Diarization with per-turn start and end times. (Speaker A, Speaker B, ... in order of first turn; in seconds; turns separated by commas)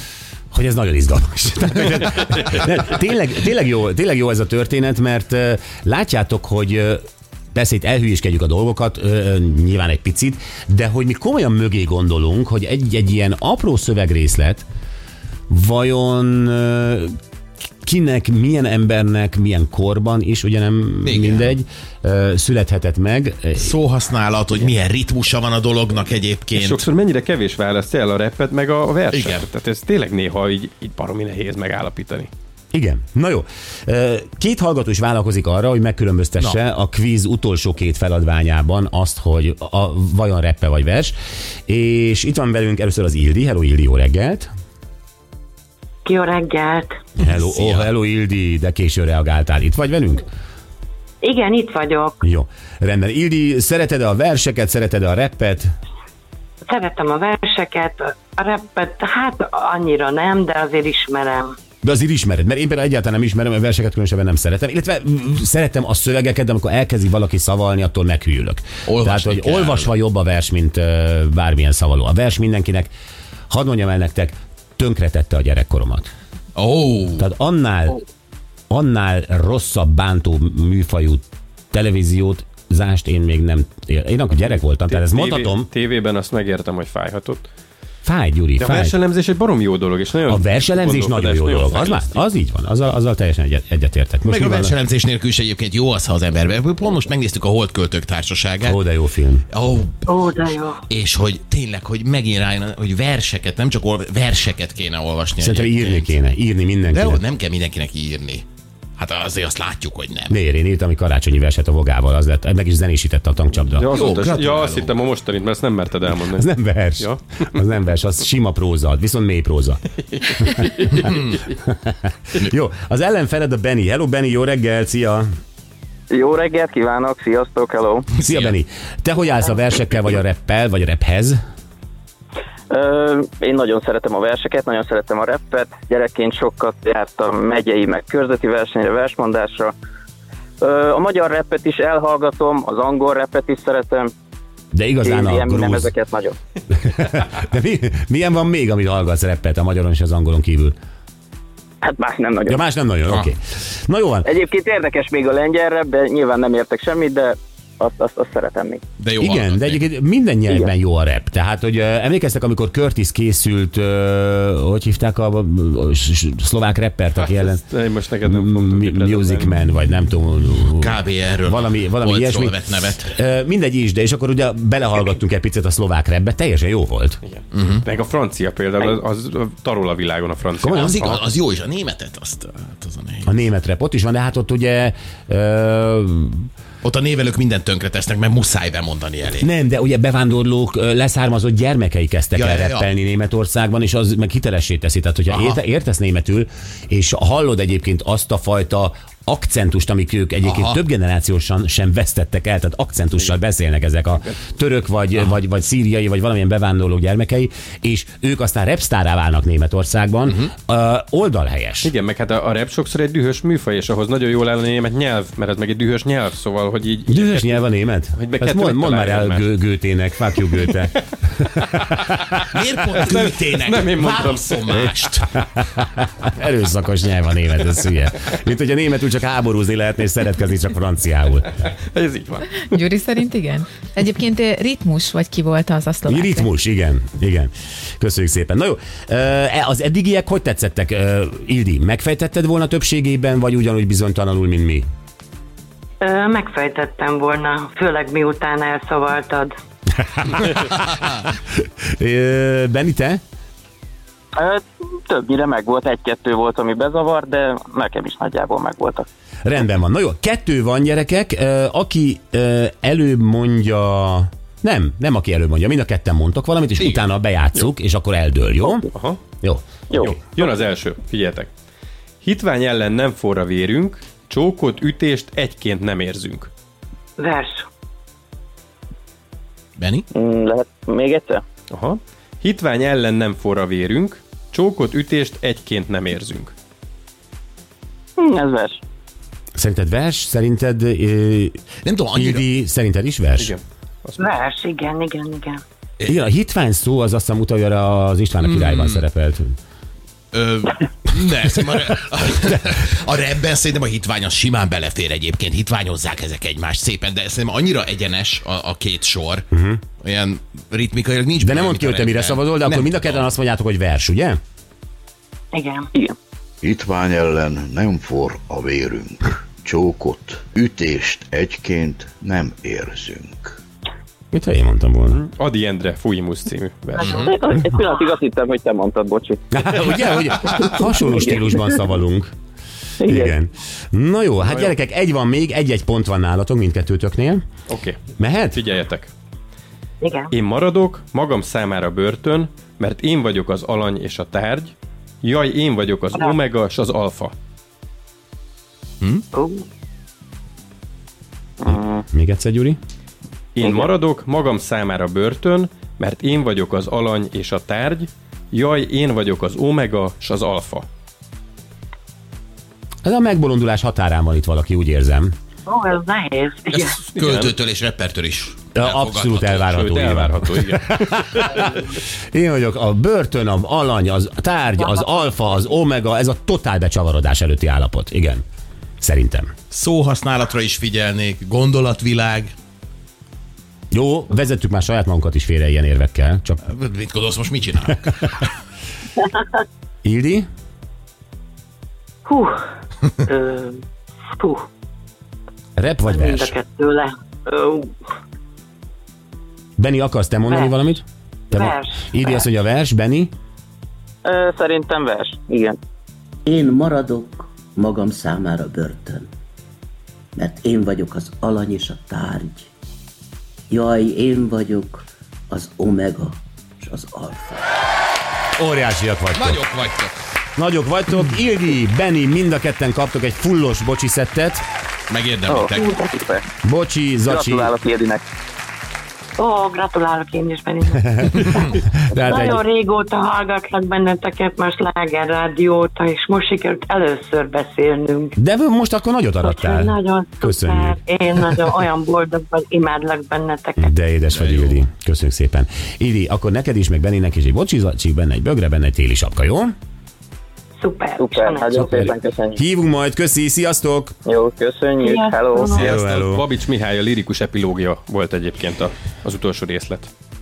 Speaker A: 0.5-7.0, Speaker A: 7.5-14.7, Speaker A: 15.5-17.1, Speaker A: 17.8-23.7, Speaker B: 21.1-21.5, Speaker B: 23.6-26.9, Speaker C: 26.5-32.3, Speaker B: 29.1-29.5, Speaker A: 32.7-41.1, Speaker A: 41.7-44.5, Speaker D: 46.0-47.0, Speaker A: 47.2-50.2, Speaker B: 47.2-47.9, Speaker D: 51.2-52.2, Speaker A: 52.2-55.7, Speaker D: 56.7-61.5, Speaker A: 61.8-72.9, Speaker B: 68.9-69.9, Speaker A: 73.5-76.1, Speaker B: 76.5-77.3, Speaker A: 77.2-78.0, Speaker A: 78.7-85.7, Speaker C: 84.8-87.5, Speaker A: 88.0-88.9, Speaker C: 88.6-92.1, Speaker A: 90.2-94.7, Speaker B: 94.3-98.8, Speaker A: 98.6-99.4, Speaker B: 99.5-100.2, Speaker D: 100.0-100.8, Speaker B: 100.9-106.1, Speaker A: 105.4-107.2, Speaker B: 106.9-108.4, Speaker B: 109.0-110.3, Speaker A: 110.3-113.9, Speaker C: 113.7-117.6, Speaker B: 113.9-115.0, Speaker A: 116.3-119.8, Speaker C: 120.1-121.3, Speaker A: 120.3-120.6, Speaker A: 121.1-125.2, Speaker E: 126.1-128.1, Speaker B: 128.2-128.5, Speaker A: 128.2-131.4, Speaker E: 132.7-139.7, Speaker E: 140.6-144.1, Speaker A: 144.7-145.9, Speaker E: 145.0-146.3, Speaker A: 146.7-150.7, Speaker E: 151.8-152.6, Speaker A: 152.4-154.3, Speaker E: 154.2-158.8, Speaker B: 159.0-159.8, Speaker A: 159.2-167.6, Speaker C: 167.2-169.5, Speaker A: 168.2-172.6, Speaker B: 170.8-173.1, Speaker A: 173.1-177.2, Speaker C: 177.2-181.3, Speaker B: 177.5-177.8, Speaker A: 180.6-181.0, Speaker B: 180.6-183.3, Speaker A: 183.2-186.5, Speaker B: 186.8-189.5, Speaker A: 189.4-211.9, Speaker B: 192.3-192.9, Speaker B: 195.3-195.6, Speaker B: 200.4-200.8, Speaker C: 211.8-219.5, Speaker A: 217.1-222.2, Speaker C: 221.6-221.8, Speaker B: 222.5-225.4, Speaker C: 223.0-224.8, Speaker A: 225.4-231.5, Speaker C: 231.8-232.8, Speaker F: 232.6-236.5, Speaker A: 236.1-244.8, Speaker D: 246.0-249.5, Speaker A: 250.1-251.1, Speaker A: 251.9-253.2, Speaker E: 254.4-259.1, Speaker A: 259.4-268.9, Speaker C: 268.9-269.2, Speaker E: 269.9-270.2, Speaker C: 269.9-271.5, Speaker C: 272.2-276.5, Speaker D: 277.2-277.6, Speaker B: 279.8-280.1, Speaker E: 280.1-281.4, Speaker C: 281.7-286.5, Speaker E: 288.2-288.8, Speaker A: 289.6-291.5, Speaker B: 291.8-292.4, Speaker A: 292.1-293.6, Speaker C: 293.4-294.3, Speaker D: 294.2-295.6, Speaker A: 296.1-299.6, Speaker B: 298.4-299.0, Speaker B: 300.3-309.4, Speaker A: 309.5-309.8, Speaker B: 310.0-313.3, Speaker A: 311.4-314.4, Speaker D: 315.5-315.9, Speaker G: 316.6-323.5, Speaker A: 324.3-325.2, Speaker C: 325.1-327.3, Speaker B: 327.0-327.3, Speaker E: 327.1-329.4, Speaker A: 329.5-332.3, Speaker E: 333.0-333.3, Speaker A: 333.1-337.4, Speaker C: 334.4-334.7, Speaker C: 337.7-338.0, Speaker A: 338.2-338.6, Speaker C: 338.5-339.1, Speaker D: 340.0-340.3, Speaker C: 340.3-347.3, Speaker D: 349.3-349.6, Speaker E: 351.6-352.0, Speaker A: 351.7-352.8, Speaker C: 353.6-360.9, Speaker A: 363.0-365.3, Speaker D: 365.6-367.0, Speaker B: 366.7-369.6, Speaker C: 367.1-367.5, Speaker A: 368.8-378.4, Speaker C: 369.7-371.2, Speaker A: 379.0-379.5, Speaker B: 379.7-382.5, Speaker A: 383.9-386.6, Speaker B: 386.7-388.3, Speaker A: 390.0-390.5, Speaker D: 392.2-392.6, Speaker D: 393.2-393.8, Speaker D: 394.4-394.6, Speaker A: 395.8-396.5, Speaker D: 396.1-397.8, Speaker A: 399.8-403.3, Speaker D: 400.4-400.8, Speaker D: 401.5-402.4, Speaker E: 404.2-405.8, Speaker H: 406.4-409.3, Speaker H: 410.3-412.7, Speaker H: 413.7-417.6, Speaker A: 418.6-419.6, Speaker B: 419.3-420.1, Speaker A: 420.6-424.6, Speaker B: 425.1-425.9, Speaker E: 425.5-426.4, Speaker A: 426.6-427.7, Speaker E: 427.3-428.2, Speaker D: 429.4-438.3, Speaker A: 431.2-432.6, Speaker A: 438.4-441.0, Speaker D: 439.4-443.9, Speaker A: 443.8-449.7, Speaker B: 444.3-444.8, Speaker D: 450.8-451.8, Speaker E: 451.2-452.6, Speaker A: 451.8-454.1, Speaker E: 454.2-455.7, Speaker D: 455.0-455.8, Speaker A: 455.7-456.4, Speaker C: 455.7-460.1